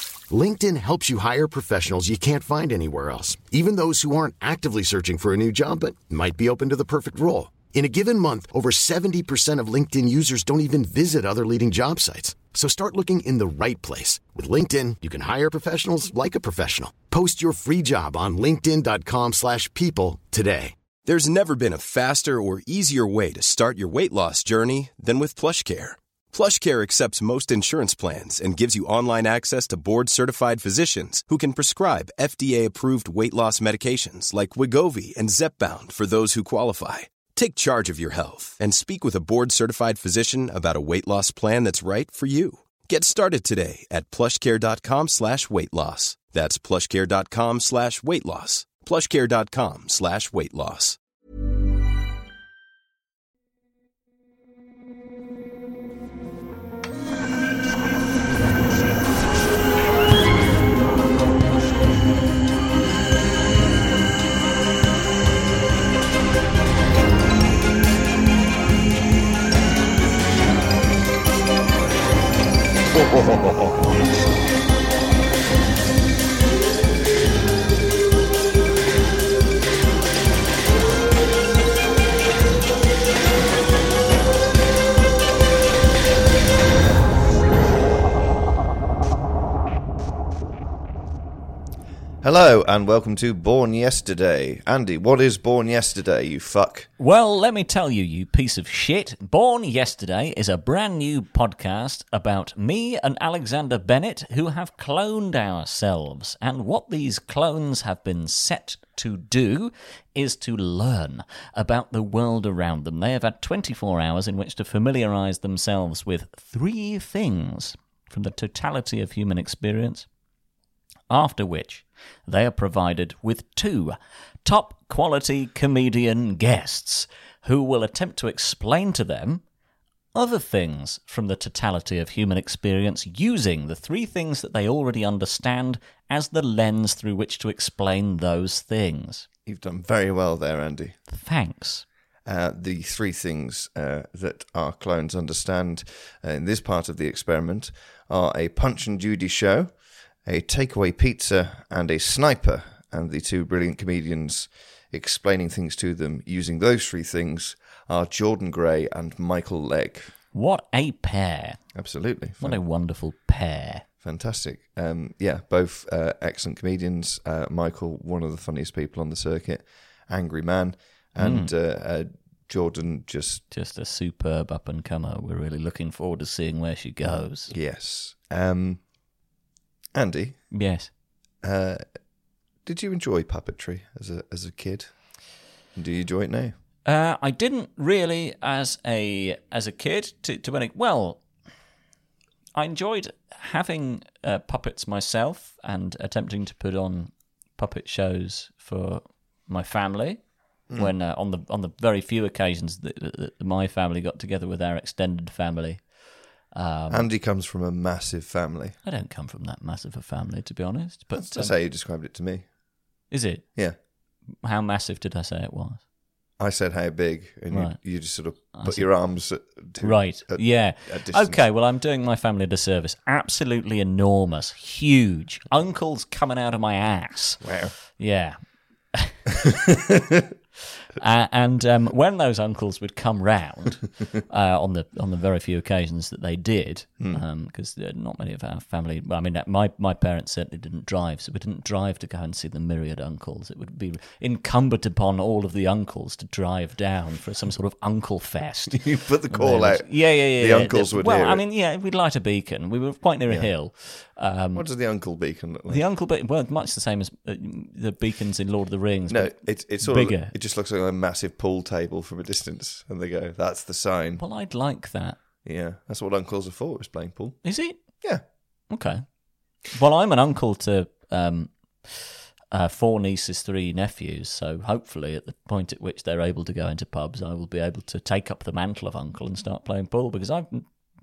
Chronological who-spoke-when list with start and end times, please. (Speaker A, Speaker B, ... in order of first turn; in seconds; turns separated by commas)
Speaker A: 0.3-20.7, Speaker B: 21.0-51.0, Speaker C: 92.2-96.9, Speaker D: 97.0-120.1, Speaker D: 121.1-129.4, Speaker D: 130.1-139.2, Speaker C: 139.4-141.0, Speaker D: 141.1-141.8, Speaker C: 142.2-160.1, Speaker D: 160.3-161.6, Speaker C: 161.7-162.6, Speaker D: 162.4-163.8, Speaker C: 164.0-173.4, Speaker D: 171.2-171.5, Speaker D: 173.5-177.5, Speaker C: 177.5-178.8, Speaker C: 179.9-180.5, Speaker D: 180.5-180.9, Speaker C: 181.4-181.8, Speaker C: 182.6-184.9, Speaker C: 185.7-186.5, Speaker D: 186.8-191.2, Speaker D: 192.5-200.2, Speaker D: 200.7-207.1, Speaker C: 206.9-208.8, Speaker D: 208.8-211.5, Speaker C: 211.1-212.5, Speaker D: 213.1-213.4, Speaker D: 214.4-215.8, Speaker C: 216.4-221.4, Speaker D: 217.5-217.8, Speaker D: 218.5-218.9, Speaker D: 219.8-228.4, Speaker C: 227.4-227.7, Speaker D: 230.9-254.7, Speaker C: 248.7-251.4, Speaker C: 254.5-255.8, Speaker D: 255.7-260.3, Speaker C: 259.1-264.2, Speaker D: 264.2-265.1, Speaker C: 265.4-267.4, Speaker D: 267.4-267.8, Speaker D: 268.7-269.0, Speaker D: 269.6-280.6